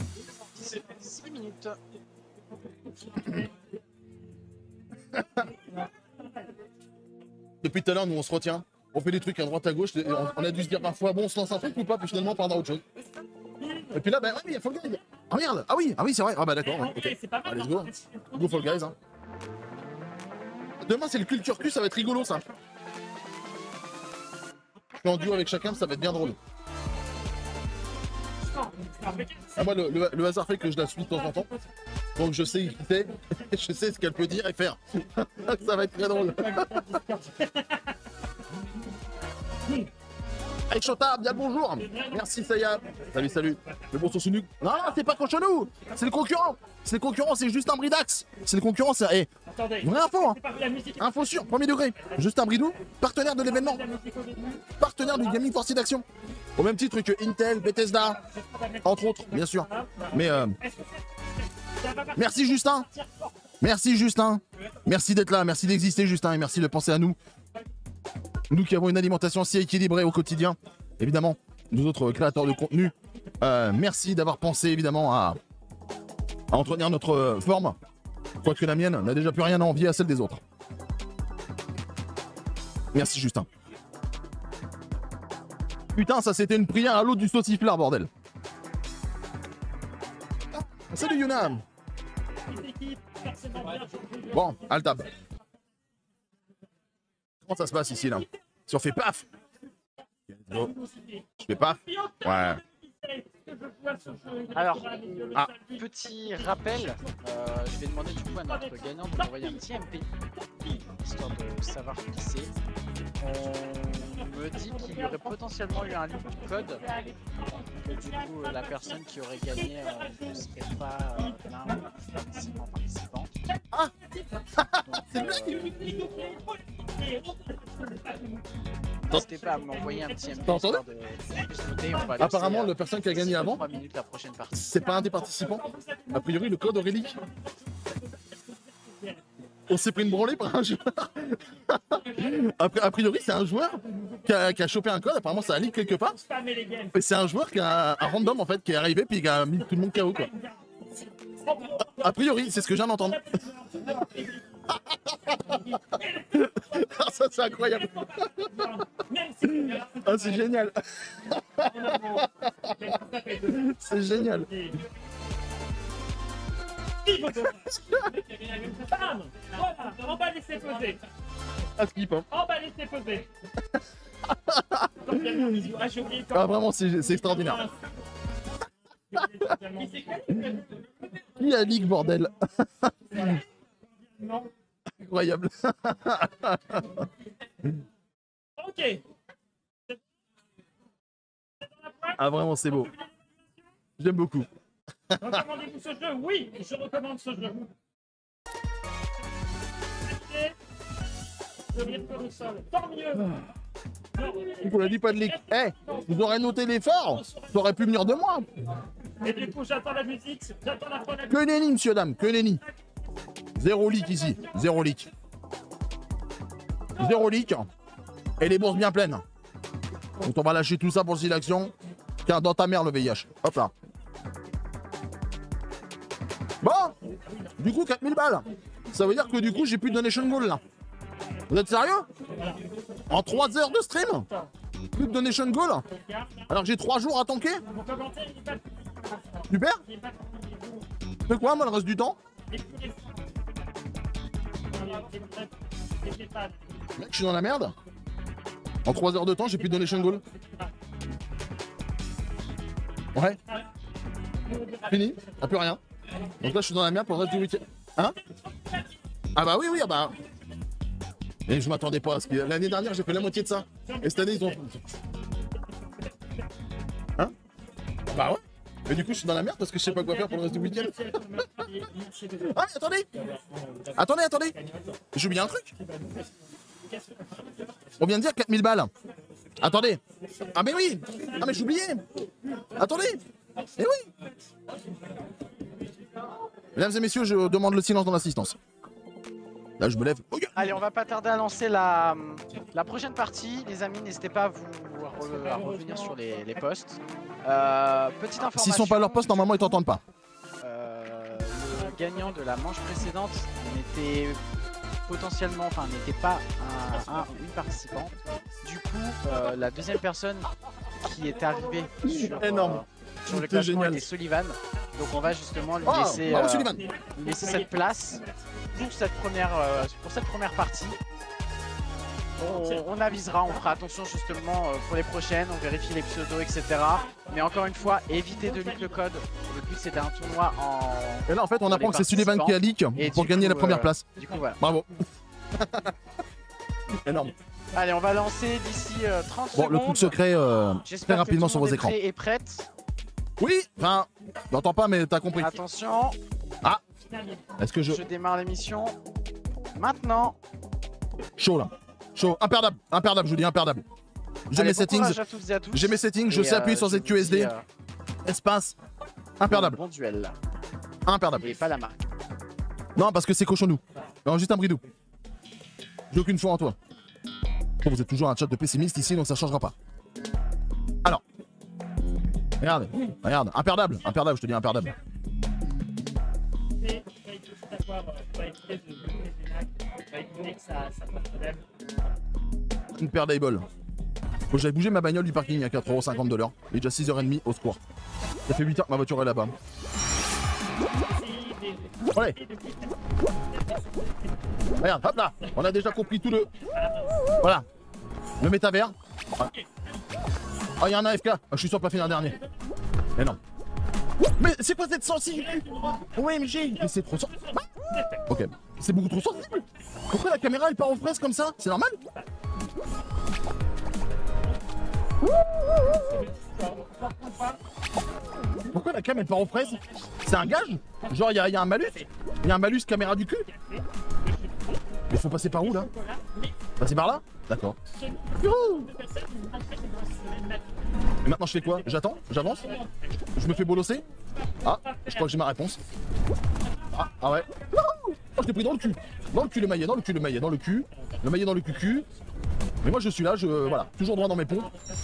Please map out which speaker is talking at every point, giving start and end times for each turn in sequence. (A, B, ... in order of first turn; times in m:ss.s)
0:00.6-0:01.8 A
0:03.0-0:03.6 B
0:05.2-0:05.4 C
0:05.7-0:06.4 B
0:07.6-0:12.8 C
0:13.6-0:14.0 B
0:13.9-0:19.0 C
0:16.6-0:18.9 B
0:20.8-0:22.5 C
0:25.0-0:26.4 C
0:28.4-0:29.7 B
0:29.6-0:31.5 C
0:31.2-0:31.6 B
0:32.2-0:37.0 C
0:36.1-0:38.0 B
0:40.7-0:49.3 C
0:41.8-0:44.0 B
0:49.5-0:52.2 B
0:49.8-0:50.4 C
0:51.0-0:53.8 C
0:53.4-0:54.8 B
0:54.8-0:56.0 C
0:56.6-0:58.2 C
0:58.2-1:03.3 B
0:58.8-1:00.6 C
1:02.2-1:02.9 C
1:03.6-1:07.2 C
1:08.5-1:15.4 C
1:16.5-1:17.8 C
1:18.4-1:20.4 C
1:22.9-1:23.5 C
1:25.9-1:28.1 C
1:30.7-1:31.6 C
1:32.4-1:35.0 B
1:34.3-1:35.1 C
1:37.5-1:39.2 C
1:40.3-1:40.7 C
1:40.5-1:41.3 B
1:41.4-1:42.6 C
1:41.8-1:47.2 B
1:44.5-1:50.1 A
1:48.4-1:49.6 B
1:50.4-1:50.8 B
1:50.9-1:52.5 A
1:53.2-1:56.9 A
1:54.6-2:00.3 B
1:57.8-2:03.4 A
2:01.2-2:01.9 B
2:03.5-2:04.5 B
2:04.6-2:05.6 C
2:04.8-2:05.7 A
2:05.2-2:08.4 B
2:09.1-2:14.8 A
2:09.1-2:10.6 B
2:10.4-2:10.8 C
2:12.2-2:13.6 C
2:14.5-2:17.2 C
2:14.8-2:19.2 B
2:19.7-2:26.2 C
2:22.1-2:22.4 B
2:23.9-2:24.2 B
2:25.9-2:27.0 B
2:26.9-2:30.3 C
2:29.9-2:34.7 B
2:31.8-2:33.2 C
2:34.9-2:35.5 C
2:35.4-2:40.5 B
2:36.3-2:38.5 C
2:39.4-2:42.8 C
2:41.6-2:44.8 B
2:43.5-2:44.5 C
2:47.0-2:51.1 B
2:51.8-2:52.3 C
2:52.3-2:53.3 B
2:54.3-2:55.7 C
2:55.0-2:57.9 B
2:56.3-2:57.7 C
2:59.1-3:01.4 B
3:01.4-3:03.4 C
3:03.1-3:04.5 B
3:05.0-3:07.1 C
3:08.6-3:09.0 B
3:11.6-3:13.1 B
3:12.2-3:12.9 C
3:14.0-3:14.5 C
3:15.1-3:15.4 C
3:15.2-3:17.7 B
3:20.0-3:20.6 B
3:21.7-3:23.4 B
3:23.2-3:23.5 C
3:24.2-3:26.3 B
3:24.6-3:28.5 C
3:27.1-3:27.8 B
3:29.2-3:31.4 B
3:31.3-3:32.6 C
3:33.6-3:35.1 C
3:37.0-3:37.7 C
3:38.4-3:39.2 C
3:40.2-3:41.7 C
3:42.2-3:43.7 C
3:46.6-3:47.0 C
3:47.2-3:47.5 B
3:47.6-3:50.6 C
3:51.5-3:52.1 C
3:52.2-3:53.2 B
3:53.1-3:54.3 C
3:55.0-3:55.8 C
3:55.9-3:56.5 B
3:56.5-3:57.6 C
3:57.6-4:00.9 B
3:59.5-3:59.8 C
4:01.3-4:02.2 C
4:02.5-4:03.6 B
4:04.7-4:06.9 B
4:07.0-4:07.8 C
4:08.8-4:10.2 C
4:09.6-4:10.7 B
4:14.4-4:15.4 B
4:14.9-4:15.8 C
4:16.4-4:18.2 C
4:18.2-4:18.9 B
4:19.4-4:20.2 C
4:21.5-4:24.8 C
4:23.7-4:24.6 B
4:28.1-4:31.2 C
4:29.9-4:32.6 B
4:32.4-4:33.1 C
4:33.1-4:34.0 B
4:34.0-4:34.6 C
4:34.5-4:35.1 B
4:35.1-4:35.7 C
4:35.8-4:37.8 B
4:38.0-4:38.9 C
4:39.6-4:40.0 C
4:40.5-4:42.0 C
4:41.1-4:41.6 B
4:42.2-4:42.8 B
4:42.8-4:43.2 C
4:43.8-4:44.1 C
4:46.8-4:48.6 C
4:49.8-4:50.8 C
4:50.6-4:59.8 A
4:55.2-4:56.4 B
4:58.5-5:00.0 C
5:00.6-5:04.4 A
5:05.1-5:10.5 A
5:11.0-5:18.2 A
5:12.0-5:14.1 C
5:15.8-5:16.8 C
5:15.9-5:18.7 B
5:18.7-5:21.0 A
5:22.4-5:34.6 A
5:22.5-5:22.8 B
5:28.2-5:29.0 B
5:31.3-5:34.0 C
5:34.6-5:34.9 C
5:35.6-5:35.9 C
5:37.0-5:37.3 C
5:37.7-5:40.2 A
5:39.5-5:42.0 C
5:40.8-5:42.7 A
5:43.4-5:45.6 C
5:45.4-5:46.2 A
5:47.0-5:47.5 B
5:47.6-5:48.0 C
5:47.9-5:49.0 A
5:49.8-5:50.4 A
5:51.4-5:53.8 C
5:54.5-5:55.2 C
5:54.5-5:57.7 A
5:55.7-5:57.5 C
5:58.2-5:58.8 C
5:59.4-5:59.8 C
5:59.4-6:00.4 A
6:01.1-6:01.5 C
6:01.4-6:02.1 A
6:03.0-6:04.8 C
6:06.1-6:06.8 C
6:07.8-6:09.7 C
6:12.6-6:15.0 C
6:16.8-6:21.7 B
6:23.0-6:23.7 C
6:24.5-6:27.8 C
6:28.5-6:29.6 C
6:30.9-6:34.4 B
6:34.8-6:36.5 C
6:36.5-6:37.3 B
6:37.4-6:37.7 C
6:38.4-6:39.5 C
6:39.4-6:39.7 B
6:40.8-6:42.4 C
6:44.4-6:47.6 C
6:45.3-6:48.3 B
6:48.3-6:52.0 C
6:55.8-6:57.6 B
6:58.7-7:03.5 C
6:59.6-7:00.1 B
7:03.5-7:05.0 B
7:05.1-7:05.9 C
7:05.6-7:06.7 B
7:06.8-7:07.8 C
7:07.9-7:15.3 B
7:08.4-7:08.9 C
7:11.2-7:12.8 C
7:13.4-7:14.0 C
7:14.6-7:15.8 C
7:16.6-7:17.7 B
7:16.9-7:22.1 C
7:21.0-7:21.2 B
7:22.8-7:24.7 C
7:23.8-7:24.9 B